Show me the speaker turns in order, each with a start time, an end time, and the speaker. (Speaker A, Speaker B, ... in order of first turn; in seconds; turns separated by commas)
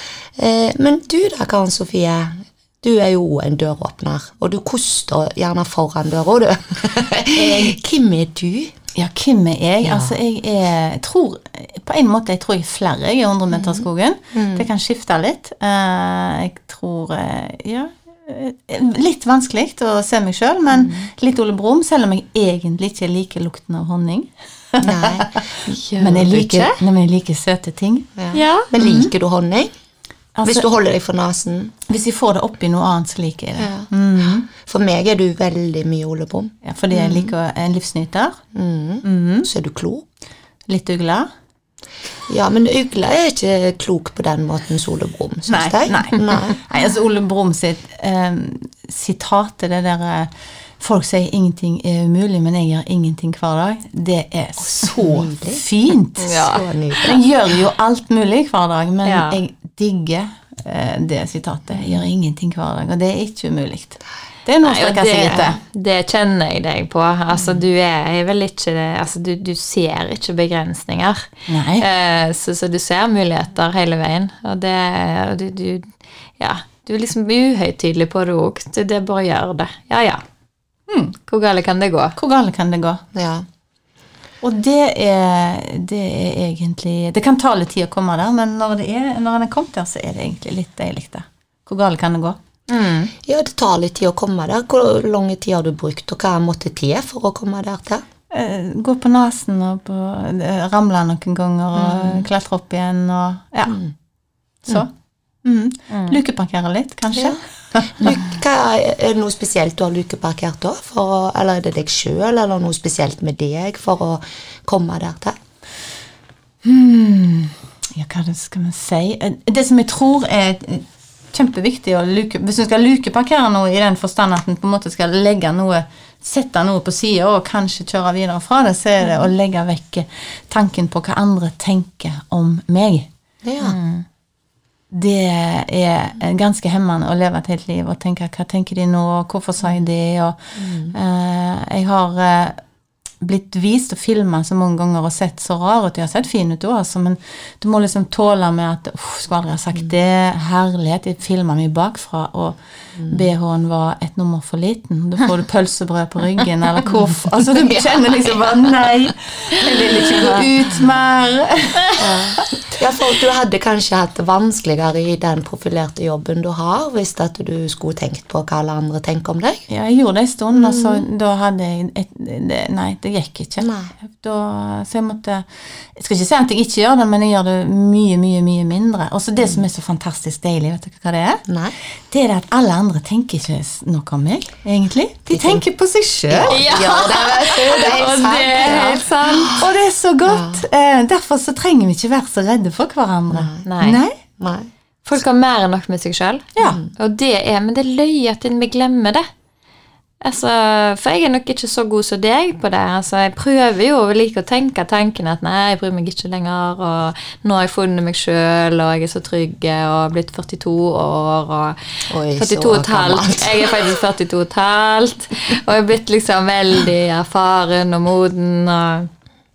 Speaker A: 0.4-8.7, Speaker B: 7.4-7.8, Speaker B: 9.0-28.1, Speaker A: 9.8-10.2, Speaker A: 13.5-14.7, Speaker A: 24.8-25.3, Speaker C: 25.7-26.8, Speaker A: 28.2-29.7, Speaker C: 28.3-28.7, Speaker B: 28.8-29.1, Speaker B: 30.4-30.7, Speaker A: 30.4-31.7, Speaker B: 31.9-34.5, Speaker A: 33.6-37.3, Speaker B: 36.6-38.4, Speaker A: 38.5-40.1, Speaker B: 39.0-39.5, Speaker B: 40.7-41.3, Speaker A: 42.3-46.6, Speaker B: 45.5-56.4, Speaker A: 54.6-55.6, Speaker C: 56.2-56.6, Speaker A: 56.3-57.2, Speaker B: 57.0-65.6, Speaker C: 59.0-59.4, Speaker A: 61.8-62.0, Speaker C: 64.6-80.2, Speaker A: 67.3-67.6, Speaker B: 71.5-71.9, Speaker B: 80.9-81.2, Speaker C: 81.3-82.2, Speaker B: 82.2-83.0, Speaker A: 83.1-83.5, Speaker B: 84.4-92.4, Speaker C: 92.7-93.1, Speaker A: 93.2-98.0, Speaker B: 98.3-103.8, Speaker A: 101.8-102.3, Speaker A: 103.7-103.9, Speaker B: 105.4-108.2, Speaker C: 105.9-106.2, Speaker A: 108.0-115.4, Speaker B: 116.6-133.1, Speaker A: 133.4-133.8, Speaker B: 133.6-134.0, Speaker B: 134.9-142.6, Speaker A: 140.6-140.9, Speaker B: 143.2-162.4, Speaker A: 157.6-158.7, Speaker C: 160.2-160.5, Speaker A: 162.0-169.7, Speaker B: 169.7-181.5, Speaker A: 170.5-171.1, Speaker A: 173.6-173.9, Speaker A: 181.5-181.8, Speaker B: 182.1-186.6, Speaker A: 185.3-185.7, Speaker A: 186.3-189.7, Speaker C: 186.5-189.6, Speaker B: 189.6-194.2, Speaker A: 190.2-190.7, Speaker A: 193.3-193.7, Speaker C: 193.7-194.0, Speaker A: 194.4-194.7, Speaker C: 195.1-199.3, Speaker B: 196.6-196.8, Speaker A: 196.6-196.9, Speaker C: 200.2-211.8, Speaker A: 212.1-214.0, Speaker C: 212.4-219.1